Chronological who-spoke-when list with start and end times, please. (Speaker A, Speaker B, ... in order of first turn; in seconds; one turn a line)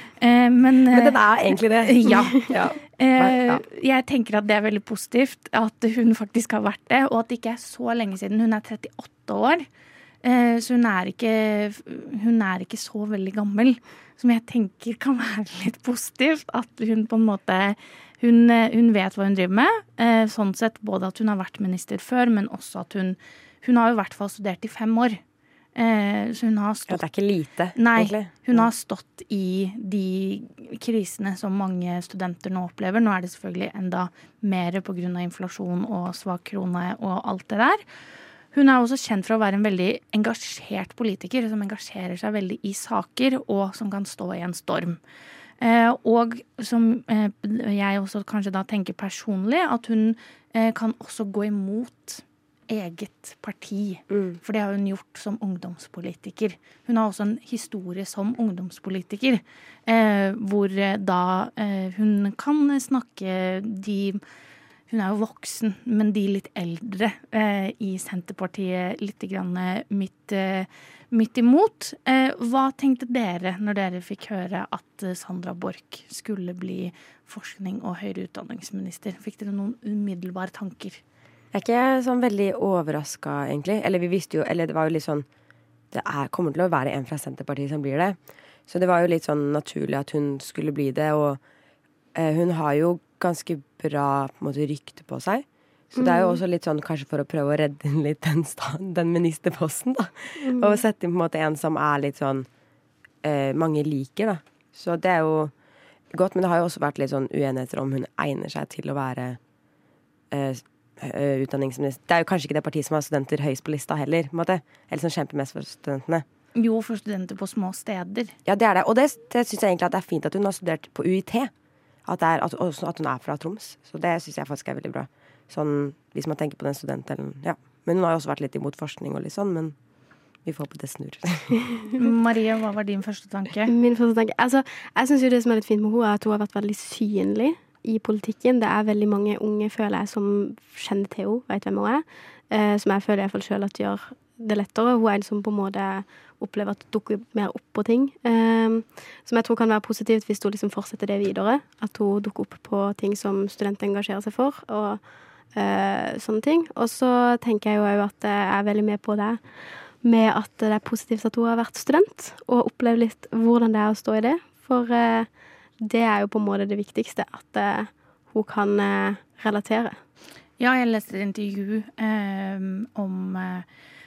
Speaker A: 0.2-9.7
Speaker B: 0.9-3.6
Speaker A: 10.2-25.2
Speaker A: 25.8-27.0
Speaker B: 26.9-28.6
Speaker A: 27.8-37.8
Speaker A: 38.5-45.0
Speaker A: 45.6-64.2
Speaker B: 54.1-54.4
Speaker A: 64.9-81.0
Speaker B: 81.5-85.3
Speaker B: 85.9-91.4
Speaker B: 92.2-102.5
Speaker C: 96.0-96.4
Speaker C: 100.4-100.8
Speaker B: 103.2-105.5
Speaker B: 106.1-109.4
Speaker B: 110.3-116.2
Speaker A: 116.6-118.3
Speaker B: 118.5-121.5
Speaker B: 122.1-129.8
Speaker B: 130.4-131.6
Speaker A: 131.9-133.7
Speaker C: 133.7-155.0
Speaker C: 155.5-159.4
Speaker C: 160.0-165.3
Speaker C: 165.8-170.0
Speaker A: 170.6-173.7